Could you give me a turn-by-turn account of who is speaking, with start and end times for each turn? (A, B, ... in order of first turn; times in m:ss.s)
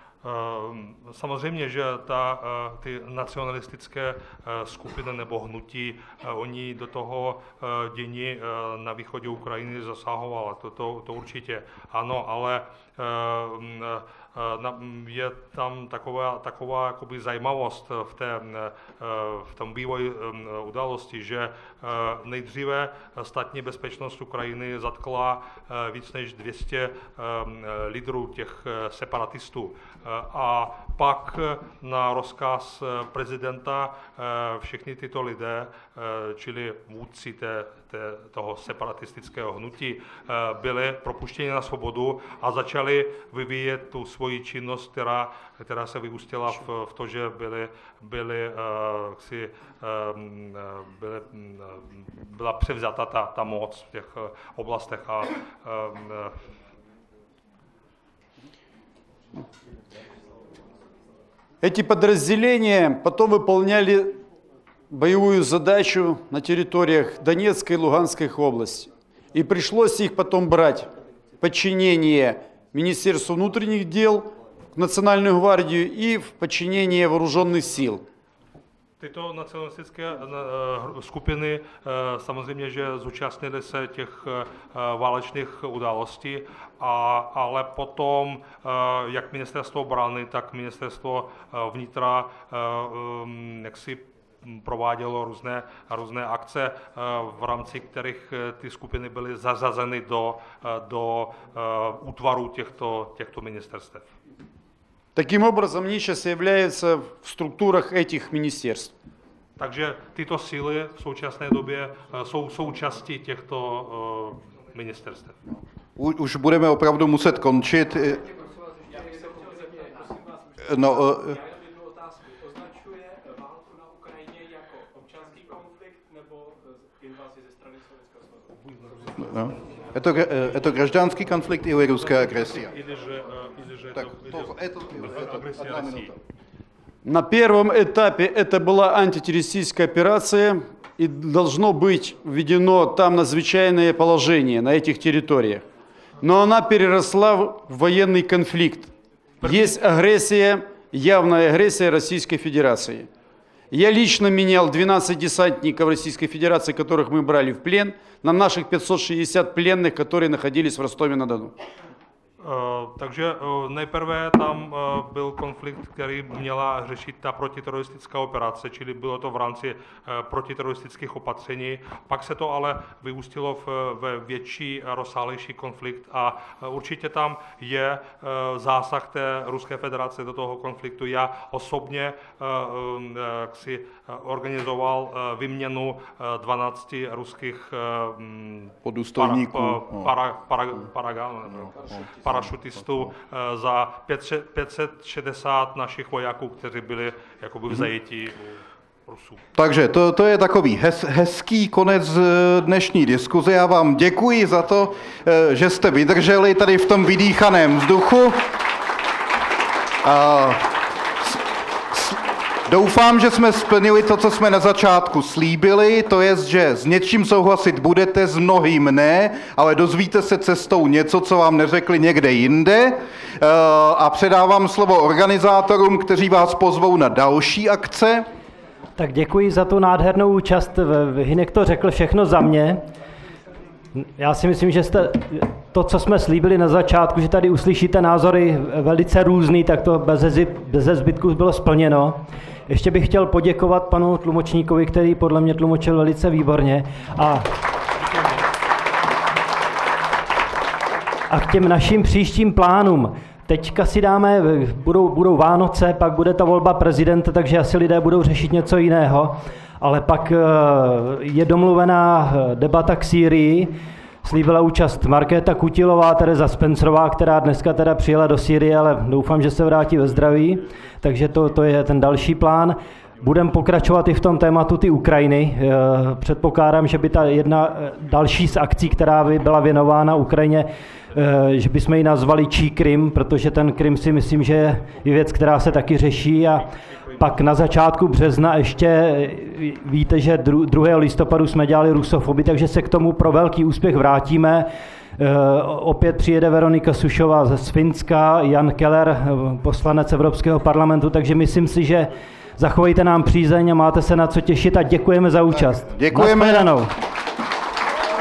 0:00.2-0:56.4 A
1:01.6-1:04.2 B
1:04.9-1:10.9 B
1:11.4-1:18.0 B
1:19.0-1:44.1 A
1:45.1-1:48.9 B
1:49.6-1:55.4 A
1:56.0-1:58.3 C
2:00.6-2:01.4 C
2:09.2-2:12.7 C
2:12.1-2:16.1 A
2:13.9-2:16.2 C
2:17.0-2:25.6 B
2:26.2-2:33.1 B
2:29.4-2:29.8 A
2:33.7-2:41.5 B
2:42.4-3:19.4 A
3:08.8-3:10.1 C
3:19.5-3:28.5 C
3:30.0-3:48.2 C
3:49.0-3:52.8 D
3:54.0-4:07.5 D
4:11.3-5:06.9 D
5:05.8-5:06.7 C